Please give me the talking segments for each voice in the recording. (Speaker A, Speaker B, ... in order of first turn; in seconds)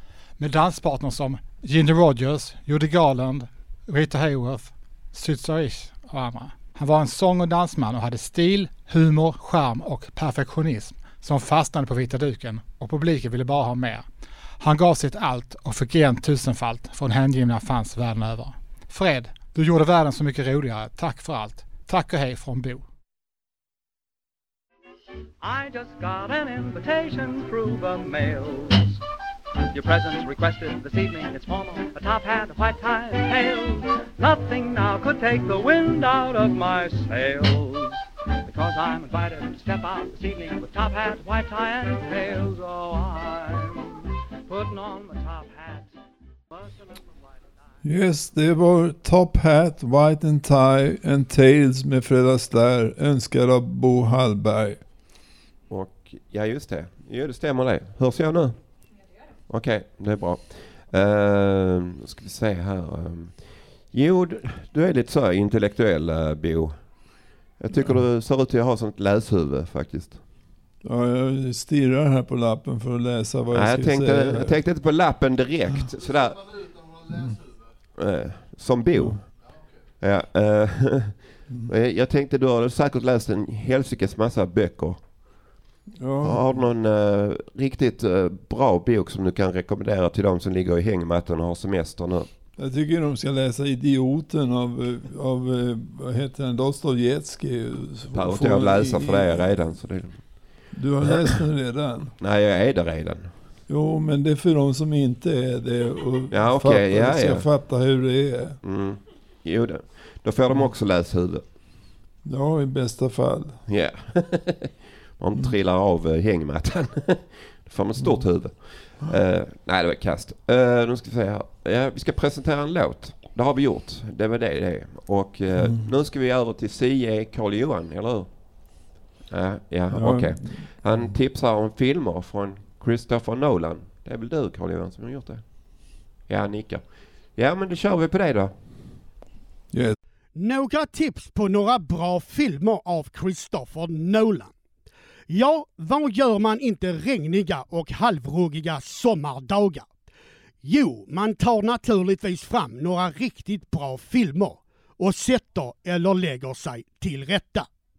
Speaker A: 0.4-14.1, 14.6-22.9
Speaker B: 25.4-29.0, 29.7-45.9, 46.5-47.4
Speaker C: 47.8-54.8, 67.7-68.0, 70.8-74.5, 77.1-77.4, 86.0-86.6, 92.6-99.5, 100.7-102.1, 103.7-108.6, 112.2-113.6, 118.0-118.3, 125.6-125.9, 129.9-131.1, 139.7-139.9
Speaker D: 55.7-58.7, 59.5-66.9, 67.6-70.2, 73.5-76.8, 78.0-79.4, 80.0-85.3, 86.2-92.3, 98.1-100.3, 101.0-101.4, 102.2-103.3, 106.3-107.5, 108.6-111.4, 113.7-139.0
Speaker E: 140.3-144.5, 145.3-149.9, 150.6-157.7